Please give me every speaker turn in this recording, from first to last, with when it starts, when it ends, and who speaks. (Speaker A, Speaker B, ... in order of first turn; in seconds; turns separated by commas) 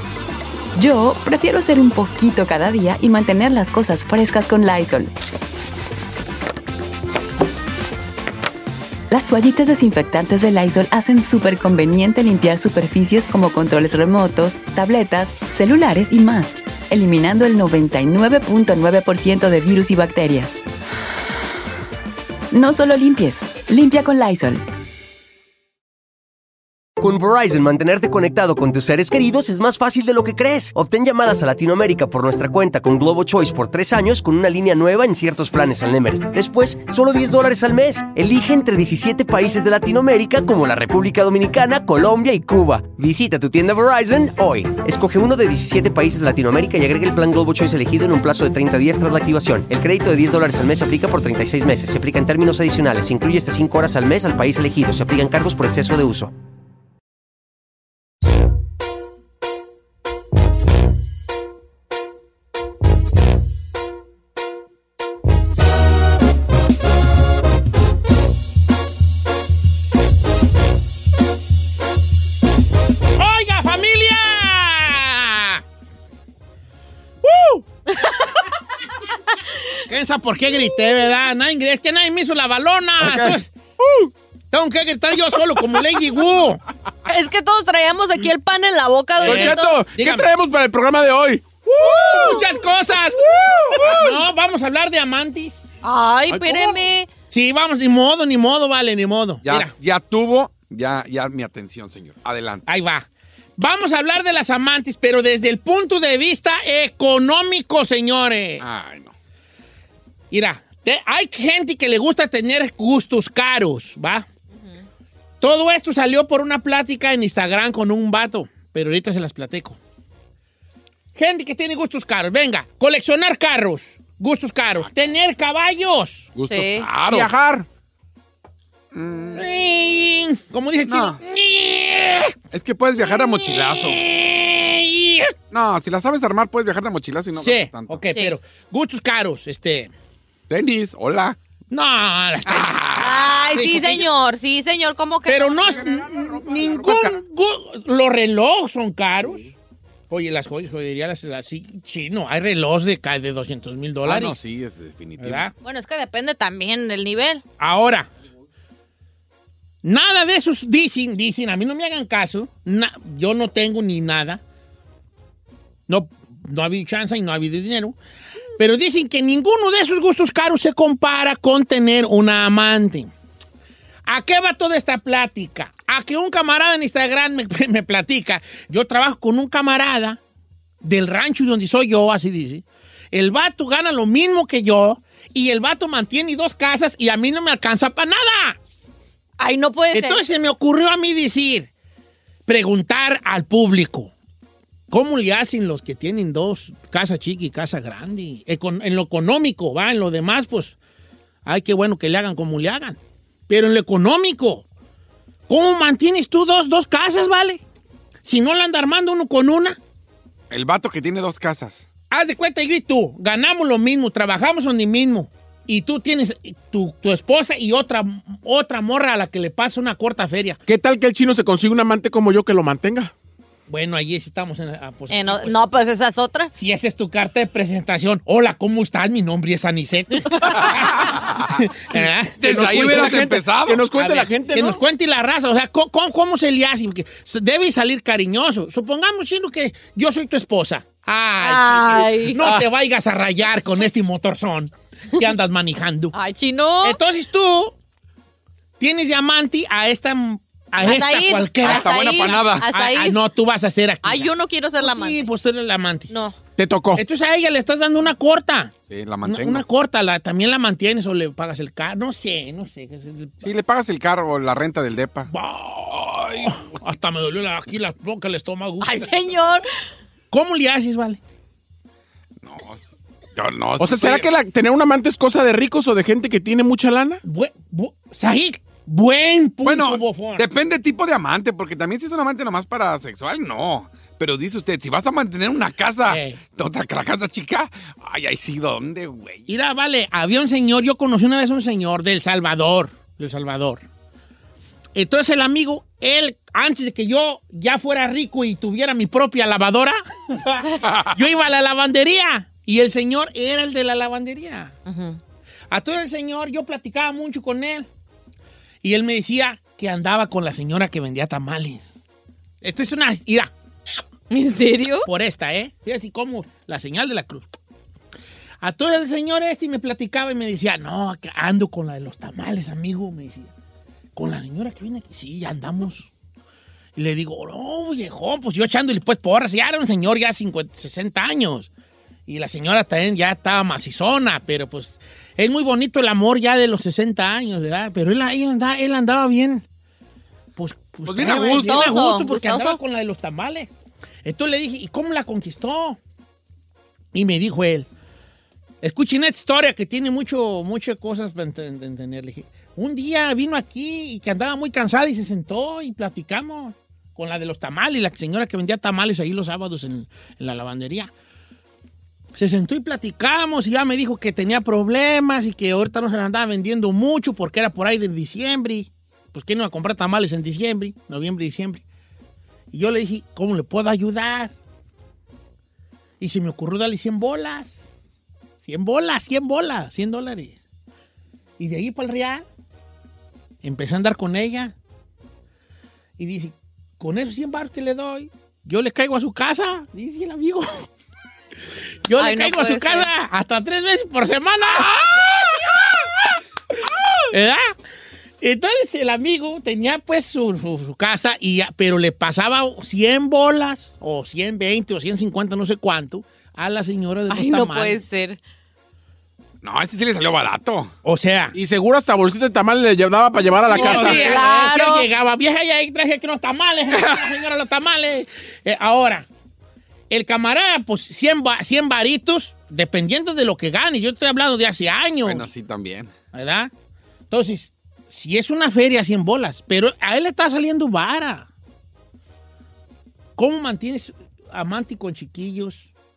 Speaker A: 0.8-5.1, Speaker A: 9.1-20.6, Speaker A: 22.5-24.6, Speaker B: 27.0-56.3, Speaker C: 73.2-75.6, Speaker C: 79.9-83.5, Speaker D: 83.0-84.1, Speaker C: 84.5-86.6, Speaker E: 87.1-89.9, Speaker D: 89.2-92.4, Speaker C: 89.2-90.3, Speaker C: 92.1-95.7, Speaker E: 92.1-92.4, Speaker D: 93.3-94.0, Speaker E: 95.8-97.1, Speaker D: 96.3-96.7, Speaker C: 97.3-99.7, Speaker F: 99.4-102.7, Speaker C: 102.7-103.1, Speaker C: 103.6-108.6, Speaker F: 108.6-109.1, Speaker C: 110.3-114.3, Speaker C: 115.4-119.8, Speaker C: 121.2-126.3, Speaker F: 126.3-127.3, Speaker E: 126.5-126.9, Speaker D: 127.1-127.7, Speaker F: 128.9-129.5, Speaker C: 129.3-132.4, Speaker F: 130.9-131.2, Speaker F: 132.5-134.0, Speaker C: 133.1-135.3, Speaker F: 135.5-138.1, Speaker C: 137.3-139.9, Speaker F: 140.5-141.4, Speaker C: 141.7-144.1, Speaker F: 142.5-143.2, Speaker E: 143.0-145.9, Speaker C: 145.3-149.5, Speaker D: 145.8-147.1, Speaker C: 150.1-154.4, Speaker F: 154.1-155.5, Speaker C: 155.2-155.5, Speaker E: 155.6-157.4, Speaker C: 157.6-158.1, Speaker C: 159.8-164.4, Speaker C: 165.9-168.0, Speaker C: 168.6-173.1, Speaker C: 174.1-180.2, Speaker C: 180.8-188.6, Speaker E: 189.4-190.2, Speaker C: 189.9-191.7, Speaker C: 192.5-194.1, Speaker C: 194.9-200.8, Speaker C: 201.4-203.0, Speaker C: 203.5-204.7, Speaker C: 205.5-207.6, Speaker C: 208.2-209.8, Speaker F: 210.5-211.9, Speaker C: 212.1-220.6, Speaker D: 220.7-223.1, Speaker C: 223.7-225.6, Speaker E: 225.1-226.5, Speaker C: 226.5-233.3, Speaker F: 231.2-231.4, Speaker F: 232.4-233.8, Speaker D: 232.7-234.8, Speaker C: 233.9-246.2, Speaker E: 241.4-242.5, Speaker E: 246.1-247.0, Speaker C: 246.8-247.8, Speaker C: 248.8-256.1, Speaker E: 250.8-253.2, Speaker F: 251.6-252.7, Speaker E: 254.0-255.3, Speaker E: 256.1-256.4, Speaker D: 256.6-257.0, Speaker C: 257.0-263.5, Speaker F: 258.9-259.6, Speaker F: 263.4-265.3, Speaker C: 265.3-269.1, Speaker F: 266.0-266.7, Speaker E: 268.8-269.6, Speaker C: 270.3-271.2, Speaker F: 272.4-274.3, Speaker D: 273.8-277.2, Speaker C: 277.2-280.5, Speaker F: 279.6-289.5, Speaker C: 286.1-286.4, Speaker C: 289.5-293.8, Speaker C: 294.9-304.8, Speaker E: 304.9-305.2, Speaker C: 305.7-307.9, Speaker C: 308.8-311.9, Speaker C: 312.6-313.5, Speaker E: 314.3-315.1, Speaker C: 315.1-317.5, Speaker C: 318.6-323.5, Speaker C: 324.2-326.1, Speaker C: 327.0-331.7, Speaker C: 332.3-339.6, Speaker C: 340.6-343.7, Speaker F: 341.1-341.9, Speaker E: 341.5-342.8, Speaker C: 344.2-346.0, Speaker C: 347.1-347.9, Speaker C: 348.8-361.1, Speaker C: 362.4-371.8, Speaker C: 372.7-374.5, Speaker C: 376.2-377.9, Speaker C: 378.6-380.6, Speaker C: 381.6-382.4, Speaker C: 383.6-384.8, Speaker C: 386.2-390.9, Speaker C: 392.1-395.6, Speaker E: 392.2-393.1, Speaker F: 394.8-395.5, Speaker C: 397.3-397.7, Speaker C: 398.4-408.0, Speaker E: 407.3-408.4, Speaker F: 409.6-410.9, Speaker C: 411.0-411.6, Speaker D: 411.6-414.2, Speaker E: 413.7-415.1, Speaker C: 413.7-419.3, Speaker F: 413.8-414.3, Speaker C: 420.1-425.5, Speaker F: 425.2-426.1, Speaker C: 426.3-426.7, Speaker C: 427.3-431.5, Speaker C: 433.4-435.9